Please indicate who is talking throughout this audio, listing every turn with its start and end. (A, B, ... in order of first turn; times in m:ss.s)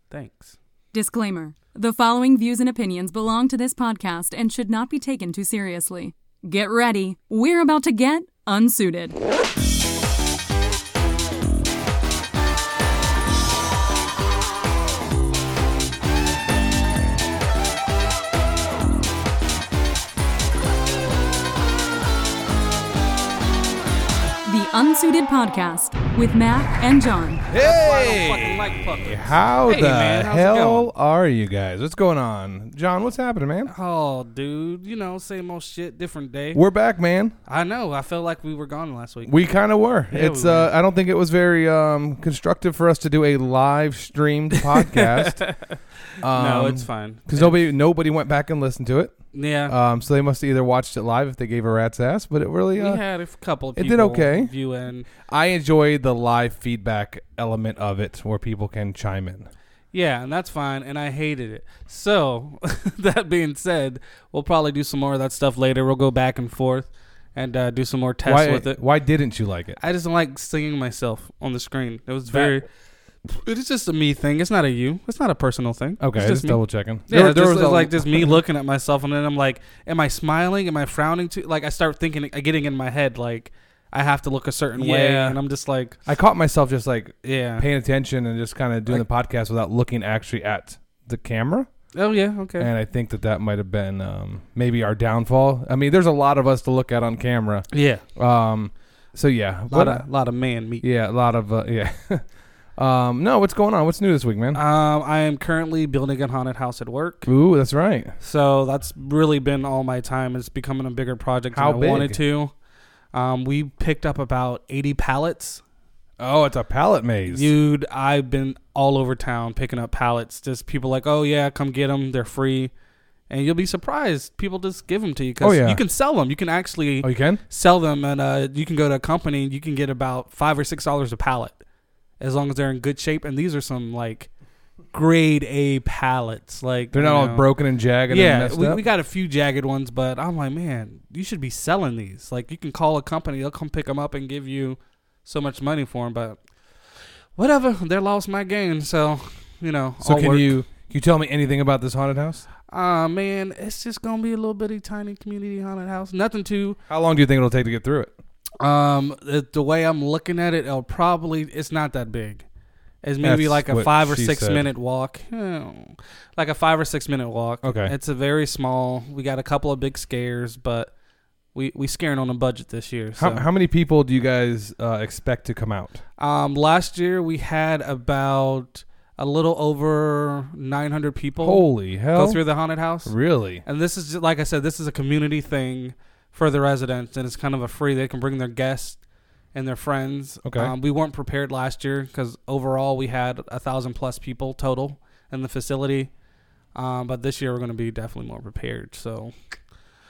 0:00.1-0:00.6 A
0:00.9-0:09.2 B
0:24.4-0:27.4 B
0:27.5-0:30.9 A
0:27.5-0:33.7 C
0:33.6-0:36.6 A
0:36.5-0:37.4 C
0:37.4-0:39.4 A
0:39.2-0:45.4 C
0:40.1-0:40.7 A
0:44.7-0:45.8 A
0:46.2-0:53.0 C
0:46.3-0:47.6 A
0:49.3-0:49.7 A
0:52.8-0:55.1 A
0:53.8-0:54.5 C
0:55.2-0:59.5 C
0:59.9-1:08.8 A
1:08.2-1:09.8 C
1:09.8-1:12.6 A
1:12.3-1:12.6 C
1:13.3-1:26.0 A
1:16.0-1:18.4 C
1:24.7-1:25.4 C
1:26.0-1:31.7 C
1:27.2-1:27.7 A
1:31.9-1:32.7 A
1:32.6-1:40.0 C
1:37.7-1:38.0 A
1:39.7-1:40.8 A
1:40.8-1:44.6 C
1:44.5-1:47.3 A
1:47.2-1:48.1 C
1:48.2-1:52.5 A
1:51.5-1:52.2 C
1:53.1-1:55.6 A
1:56.2-1:57.5 C
1:57.3-2:02.7 A
2:03.3-2:11.6 A
2:05.4-2:05.8 C
2:07.0-2:07.4 C
2:12.2-2:14.3 A
2:14.9-2:17.5 A
2:16.9-2:18.8 C
2:18.1-2:26.4 A
2:27.4-2:30.5 A
2:30.0-2:32.4 C
2:32.7-2:36.8 A
2:36.9-2:38.1 C
2:38.6-2:42.4 A
2:43.0-2:50.9 A
2:43.2-2:44.7 C
2:47.6-2:47.9 C
2:51.5-2:53.4 A
2:53.2-2:56.0 C
2:56.2-3:03.1 A
3:01.4-3:02.4 C
3:03.0-3:03.6 C
3:03.6-3:09.0 A
3:09.5-3:16.1 A
3:10.4-3:10.7 C
3:16.7-3:19.3 A